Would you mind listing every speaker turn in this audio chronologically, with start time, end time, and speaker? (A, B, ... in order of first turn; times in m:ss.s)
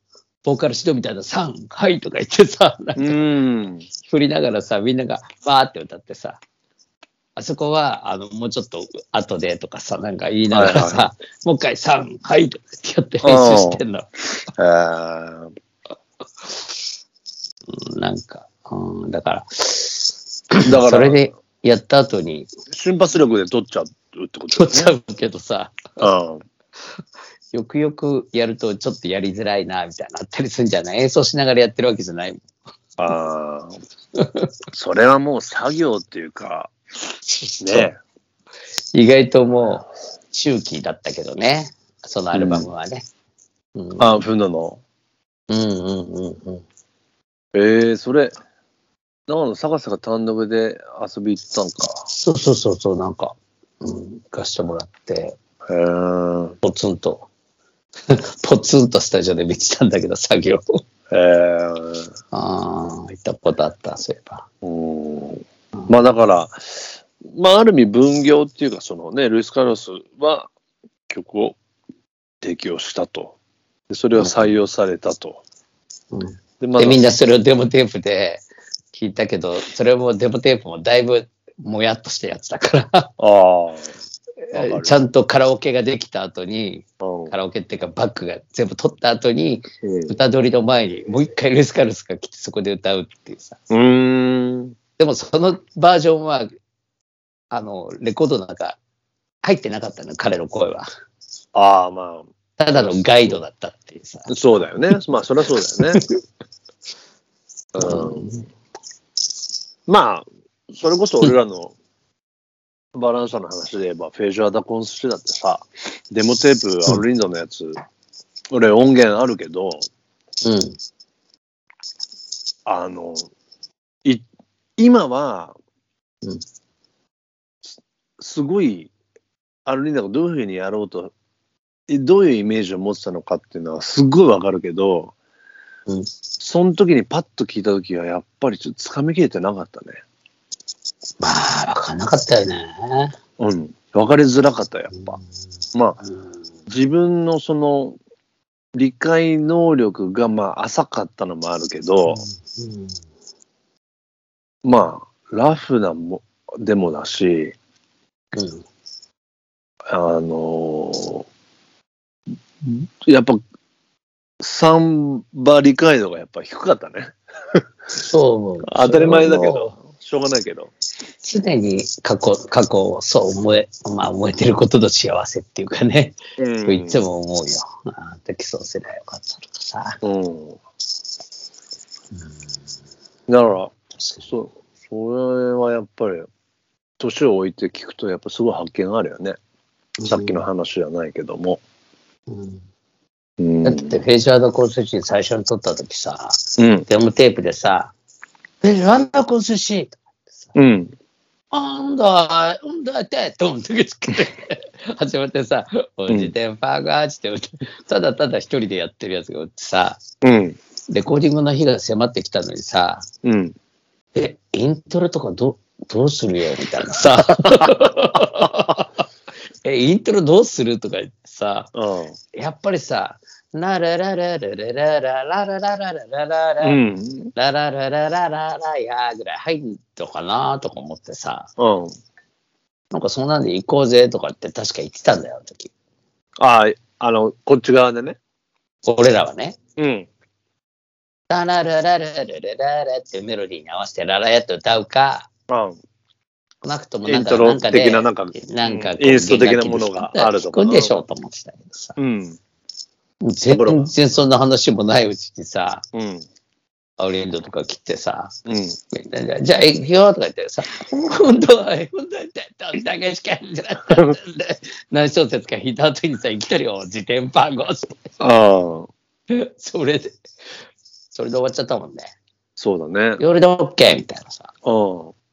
0:00.4-0:03.2 A
0:03.0-0:03.8 B
0:04.0-0:06.4 A
0:07.4-0:14.1 A
0:10.5-0:11.0 B
0:13.2-0:13.8 B
0:14.6-0:15.5 B
0:17.7-0:22.5 A
0:20.6-0:21.2 B
0:22.7-0:25.0 B
0:24.5-0:26.1 A
0:26.0-0:26.4 B
0:27.5-0:32.4 A
0:33.0-0:33.8 B
0:34.2-0:34.5 A
0:34.7-0:36.7 B
0:37.4-0:37.9 A
0:37.6-0:38.0 B
0:38.9-0:43.0 A
0:42.3-0:42.7 B
0:43.8-0:44.2 A
0:44.0-0:44.8 B
0:45.5-0:46.6 A
0:47.5-0:48.3 B
0:49.3-0:52.1 B
0:52.1-0:55.4 A
0:55.7-0:56.6 B
0:56.6-0:57.3 A
0:58.1-1:00.8 A
1:01.1-1:02.1 B
1:02.3-1:04.4 A
1:04.6-1:10.5 B
1:11.1-1:11.6 B
1:12.4-1:13.4 B
1:13.9-1:15.4 B
1:14.2-1:14.6 A
1:16.1-1:23.1 A
1:16.6-1:17.0 B
1:23.2-1:24.0 B
1:24.5-1:33.6 A
1:24.5-1:25.0 B
1:27.0-1:27.3 B
1:29.8-1:30.2 B
1:33.7-1:34.8 B
1:35.0-1:36.5 A
1:37.5-1:38.8 A
1:39.4-1:40.9 A
1:41.5-1:43.4 B
1:42.6-1:44.3 A
1:44.3-1:46.0 B
1:47.7-1:48.4 B
1:47.8-1:48.4 A
1:49.9-1:51.7 B
1:52.9-1:57.8 B
1:58.5-1:59.9 B
2:00.4-2:00.8 A
2:02.7-2:03.3 B
2:04.8-2:05.5 B
2:08.2-2:08.9 B
2:09.7-2:11.1 B
2:11.9-2:15.1 B
2:16.4-2:20.0 B
2:21.2-2:23.2 A
2:23.4-2:25.2 B
2:24.9-2:25.2 A
2:26.7-2:28.0 B
2:28.8-2:32.2 B
2:32.1-2:33.0 A
2:34.6-2:37.6 B
2:38.3-2:38.6 A
2:39.9-2:41.3 B
2:42.6-2:43.4 B
2:44.4-2:47.6 B
2:48.0-2:49.7 A
2:48.7-2:50.7 B
2:51.2-3:00.0 A
2:56.4-2:57.0 B
3:00.0-3:00.6 B
3:03.3-3:03.7 B
3:04.0-3:04.3 A
3:04.2-3:06.3 B
3:07.0-3:09.4 B
3:10.0-3:10.4 A
3:10.0-3:11.6 B
3:12.3-3:12.6 A
3:13.4-3:14.0 B
3:13.6-3:17.9 A
3:16.6-3:16.9 B
3:18.6-3:20.5 A
3:20.6-3:20.9 B
3:21.5-3:30.0 A
3:26.1-3:26.3 B
3:30.2-3:30.6 B
3:30.9-3:33.1 A
3:33.2-3:33.5 B
3:34.2-3:38.9 A
3:37.0-3:38.6 B
3:39.6-3:41.7 A
3:41.8-3:42.2 B
3:42.3-3:46.8 A
3:46.6-3:47.3 B
3:47.4-3:51.5 A
3:51.6-3:52.0 B
3:52.9-3:55.7 A
3:56.4-3:58.2 B
3:58.8-3:59.6 A
3:59.8-4:00.1 B
4:01.3-4:05.3 A
4:05.5-4:05.8 B
4:06.6-4:12.0 A
4:07.1-4:11.0 B
4:12.0-4:12.4 B
4:13.2-4:15.8 A
4:13.5-4:13.9 B
4:15.9-4:16.2 B
4:17.0-4:18.4 A
4:18.5-4:18.8 B
4:18.9-4:28.1 A
4:28.2-4:28.9 B
4:29.3-4:30.2 A
4:31.1-4:32.1 A
4:32.6-4:33.2 B
4:33.2-4:34.5 A
4:34.6-4:35.1 B